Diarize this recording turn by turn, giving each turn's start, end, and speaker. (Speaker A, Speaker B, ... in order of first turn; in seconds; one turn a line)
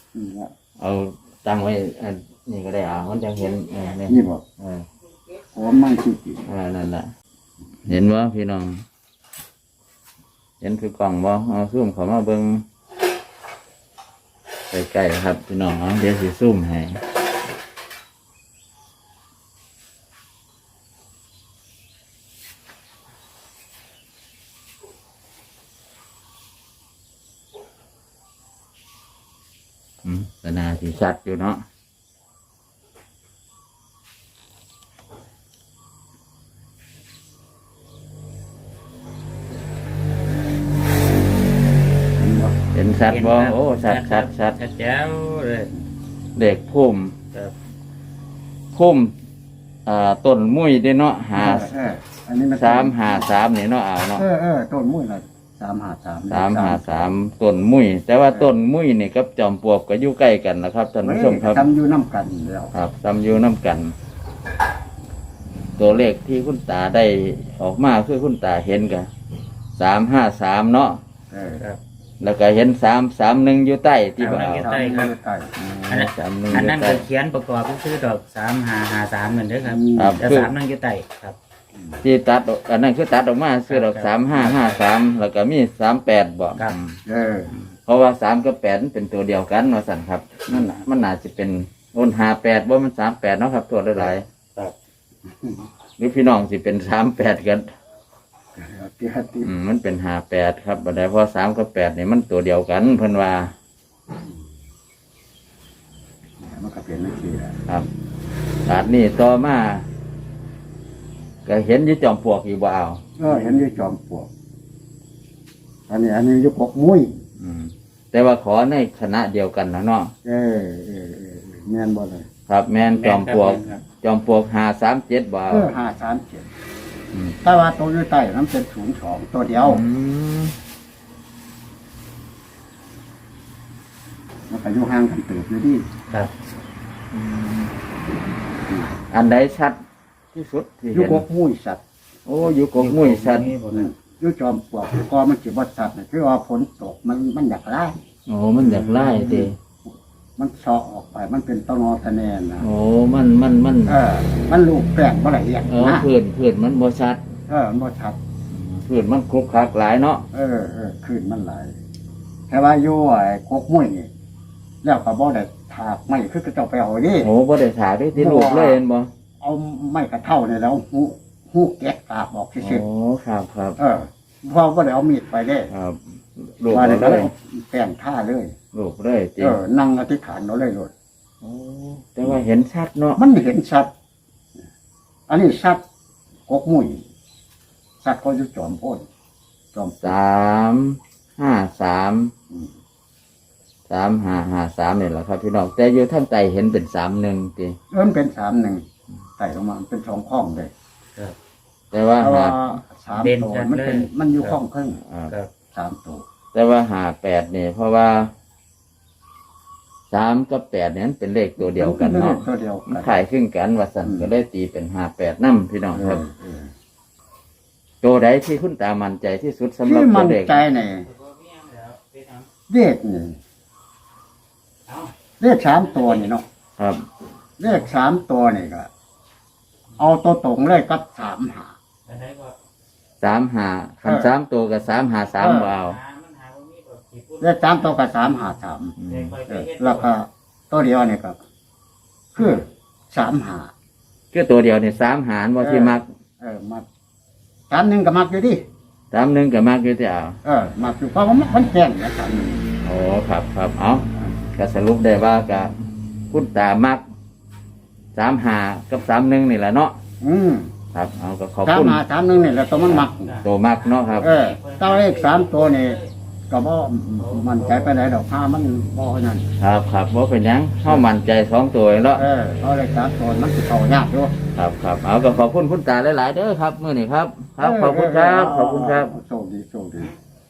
Speaker A: 0.1-0.5
Speaker B: 0.8-4.8
Speaker A: 4.1-4.4
Speaker A: 5.5-6.5
Speaker B: 6.5-7.1
Speaker B: 7.9-8.8
Speaker B: 10.6-12.7
Speaker B: 14.7-17.0
Speaker B: 30.0-31.6
Speaker A: 42.2-42.5
Speaker B: 42.7-44.6
Speaker C: 43.1-45.7
Speaker B: 46.4-47.1
Speaker B: 48.7-49.1
Speaker B: 49.9-51.7
Speaker A: 51.4-53.3
Speaker B: 52.6-54.2
Speaker A: 54.1-57.1
Speaker B: 56.3-61.6
Speaker A: 61.0-62.7
Speaker B: 62.7-63.9
Speaker B: 65.8-69.1
Speaker B: 69.8-71.0
Speaker A: 71.3-71.6
Speaker B: 72.2-74.7
Speaker C: 74.2-75.1
Speaker A: 74.5-75.5
Speaker B: 75.6-77.0
Speaker C: 75.9-81.4
Speaker A: 79.7-80.2
Speaker B: 80.0-80.5
Speaker B: 82.0-87.0
Speaker C: 83.7-84.8
Speaker A: 87.0-87.5
Speaker B: 87.9-94.3
Speaker A: 95.3-95.7
Speaker B: 96.0-97.7
Speaker A: 98.6-99.5
Speaker B: 99.4-103.5
Speaker A: 106.4-107.6
Speaker B: 108.7-109.8
Speaker B: 111.5-113.3
Speaker A: 113.2-114.3
Speaker A: 115.9-117.2
Speaker B: 117.4-120.1
Speaker A: 120.2-122.3
Speaker B: 122.5-125.7
Speaker C: 122.9-123.8
Speaker A: 125.5-126.5
Speaker A: 127.4-129.8
Speaker B: 129.7-130.6
Speaker A: 134.5-135.8
Speaker B: 137.1-137.7
Speaker B: 139.1-139.8
Speaker B: 140.3-141.2
Speaker A: 140.9-141.8
Speaker B: 142.3-143.5
Speaker C: 142.7-143.9
Speaker A: 143.7-148.0
Speaker B: 148.3-149.6
Speaker C: 148.6-149.3
Speaker A: 149.2-152.7
Speaker B: 152.6-154.0
Speaker A: 153.9-156.1
Speaker B: 155.7-157.2
Speaker A: 157.5-158.2
Speaker B: 158.5-160.2
Speaker A: 160.3-161.7
Speaker A: 162.5-164.1
Speaker A: 164.8-167.3
Speaker B: 167.2-169.1
Speaker A: 168.1-168.8
Speaker A: 169.4-172.8
Speaker B: 172.6-173.8
Speaker A: 173.8-175.7
Speaker B: 175.7-177.3
Speaker A: 176.7-178.5
Speaker B: 178.7-179.6
Speaker A: 179.4-180.9
Speaker B: 181.4-183.2
Speaker A: 183.2-183.9
Speaker A: 185.3-185.8
Speaker A: 186.5-187.0
Speaker A: 188.0-189.1
Speaker A: 189.7-190.2
Speaker B: 190.0-192.3
Speaker B: 193.9-197.8
Speaker A: 197.9-198.8
Speaker A: 199.4-200.7
Speaker B: 201.9-202.7
Speaker A: 202.2-205.0
Speaker C: 203.2-204.1
Speaker B: 205.1-205.3
Speaker A: 205.7-206.2
Speaker B: 206.5-208.3
Speaker B: 210.1-216.2
Speaker A: 211.6-213.2
Speaker A: 214.0-214.3
Speaker A: 215.9-216.7
Speaker B: 218.0-220.7
Speaker A: 219.8-221.1
Speaker C: 221.0-222.5
Speaker A: 222.7-223.4
Speaker C: 224.9-225.1
Speaker A: 225.4-226.4
Speaker C: 225.9-226.3
Speaker B: 226.8-227.0
Speaker A: 227.6-228.9
Speaker A: 230.0-231.8
Speaker C: 232.1-232.6
Speaker B: 233.2-236.0
Speaker A: 234.0-234.3
Speaker A: 235.4-235.7
Speaker C: 235.5-237.9
Speaker A: 237.4-238.9
Speaker B: 239.0-239.4
Speaker C: 239.1-240.1
Speaker A: 239.5-241.4
Speaker A: 242.3-243.7
Speaker B: 244.3-246.1
Speaker A: 245.6-246.9
Speaker A: 247.7-248.6
Speaker B: 249.1-250.4
Speaker A: 250.4-252.7
Speaker B: 252.8-255.7
Speaker B: 256.3-257.0
Speaker B: 258.1-260.0
Speaker A: 260.2-260.7
Speaker B: 260.9-262.0
Speaker A: 261.6-263.4
Speaker C: 262.2-266.1
Speaker B: 263.4-264.3
Speaker A: 264.2-269.5
Speaker C: 267.2-267.9
Speaker B: 269.6-272.3
Speaker A: 272.1-274.3
Speaker B: 274.6-279.1
Speaker A: 277.6-280.1